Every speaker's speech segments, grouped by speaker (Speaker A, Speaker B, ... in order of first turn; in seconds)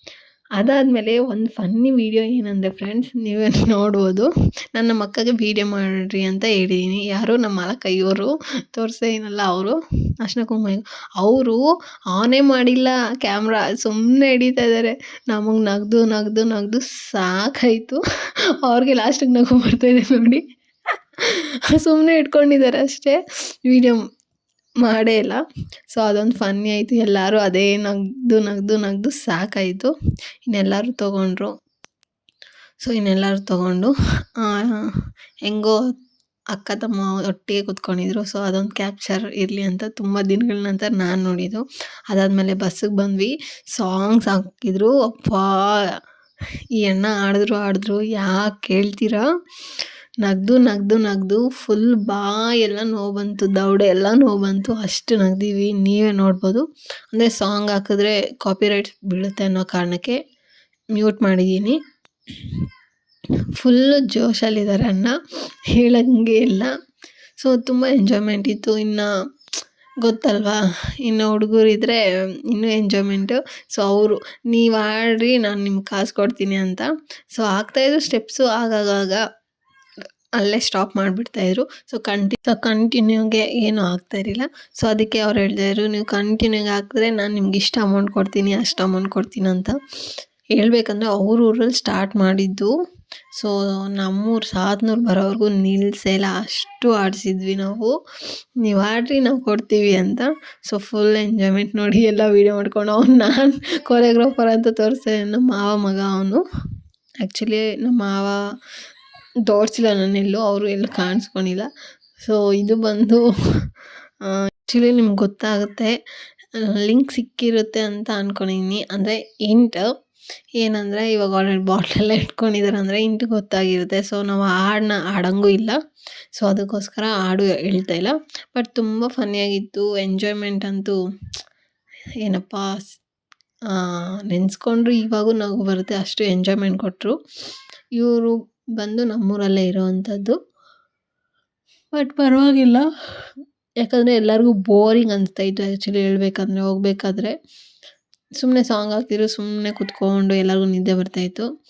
Speaker A: 0.6-18.0, 18.6-20.4, 21.2-24.0, 24.8-29.9, 30.5-31.5, 32.8-35.9, 36.5-46.0, 46.8-49.2, 50.2-60.2, 60.9-61.8, 62.3-62.6, 63.5-65.2, 65.7-66.7, 67.4-69.1, 70.0-79.2, 80.4-89.8, 90.5-92.7, 93.3-97.9, 98.6-106.4, 107.2-108.4, 109.5-111.7, 112.2-116.0, 116.5-119.9, 120.6-125.8, 126.3-131.0, 132.2-133.0, 133.7-137.2, 137.9-140.4, 141.9-147.3, 148.4-151.5